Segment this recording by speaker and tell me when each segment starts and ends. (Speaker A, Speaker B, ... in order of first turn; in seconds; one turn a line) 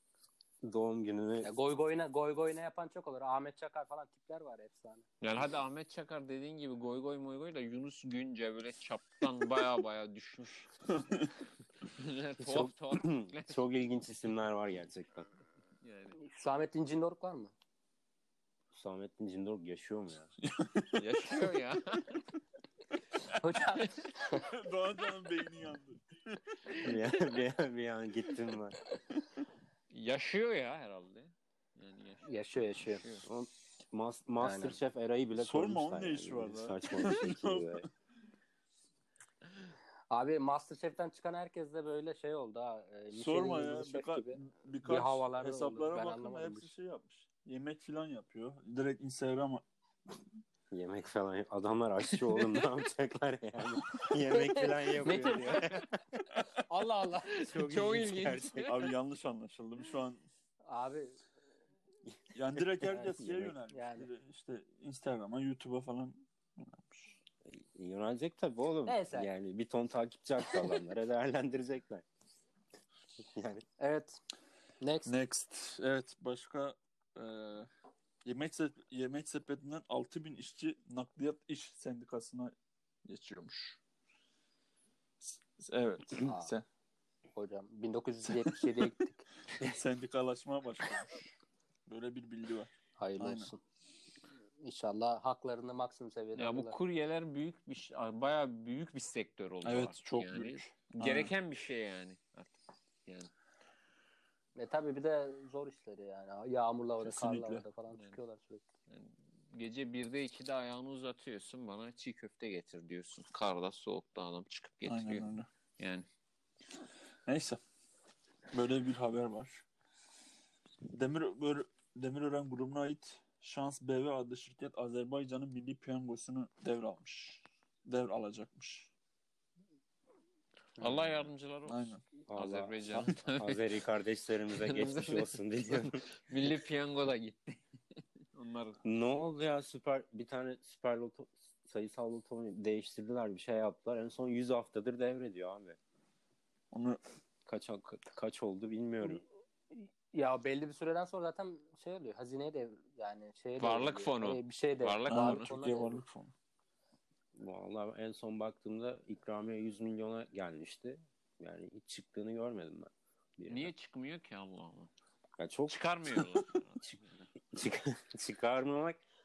Speaker A: 0.6-1.5
Speaker B: 1.4-5.0
Speaker C: 5.2-10.7
Speaker D: 10.9-11.3
Speaker C: 11.9-13.7
Speaker A: 12.4-15.3
Speaker C: 15.8-16.2
Speaker B: 16.2-17.5
Speaker A: 18.7-20.3
Speaker D: 20.4-21.5
Speaker C: 21.0-22.2
Speaker B: 23.4-24.5
Speaker D: 24.3-26.6
Speaker C: 26.7-27.1
Speaker A: 26.8-28.8
Speaker C: 29.9-33.2
Speaker B: 32.2-33.0
Speaker A: 33.2-37.9
Speaker B: 34.4-34.8
Speaker D: 35.4-37.9
Speaker B: 40.1-46.7
Speaker D: 43.1-49.6
Speaker A: 50.7-55.9
Speaker C: 52.3-52.7
Speaker B: 54.3-55.8
Speaker D: 56.3-56.6
Speaker B: 56.7-57.5
Speaker C: 57.3-58.9
Speaker A: 57.4-58.7
Speaker D: 58.6-60.2
Speaker B: 60.7-61.2
Speaker D: 62.3-67.1
Speaker B: 62.9-64.1
Speaker A: 63.2-63.5
Speaker A: 67.5-72.0
Speaker B: 68.9-69.3
Speaker A: 73.2-73.7
Speaker B: 73.8-74.2
Speaker B: 74.8-75.1
Speaker D: 75.1-77.7
Speaker D: 78.2-82.5
Speaker D: 83.0-83.8
Speaker D: 85.2-86.6
Speaker B: 86.2-86.5
Speaker B: 87.3-89.2
Speaker D: 88.2-88.9
Speaker D: 89.6-91.2
Speaker D: 91.9-93.5
Speaker B: 93.0-93.6
Speaker B: 94.6-96.8
Speaker C: 96.3-103.3
Speaker D: 99.6-101.3
Speaker B: 104.6-108.7
Speaker D: 107.0-107.6
Speaker C: 108.9-116.1
Speaker D: 114.9-115.5
Speaker D: 117.3-117.6
Speaker D: 118.5-119.7
Speaker D: 120.9-128.9
Speaker C: 130.8-133.7
Speaker D: 131.7-132.0
Speaker A: 132.3-136.1
Speaker C: 134.6-137.6
Speaker C: 138.3-138.8
Speaker A: 138.8-145.8
Speaker D: 146.7-147.0
Speaker A: 147.5-149.2
Speaker B: 149.7-156.0
Speaker C: 153.6-155.5
Speaker D: 155.1-156.3
Speaker A: 157.3-163.7
Speaker C: 163.5-164.9
Speaker A: 165.4-167.0
Speaker C: 165.7-167.2
Speaker A: 167.5-169.0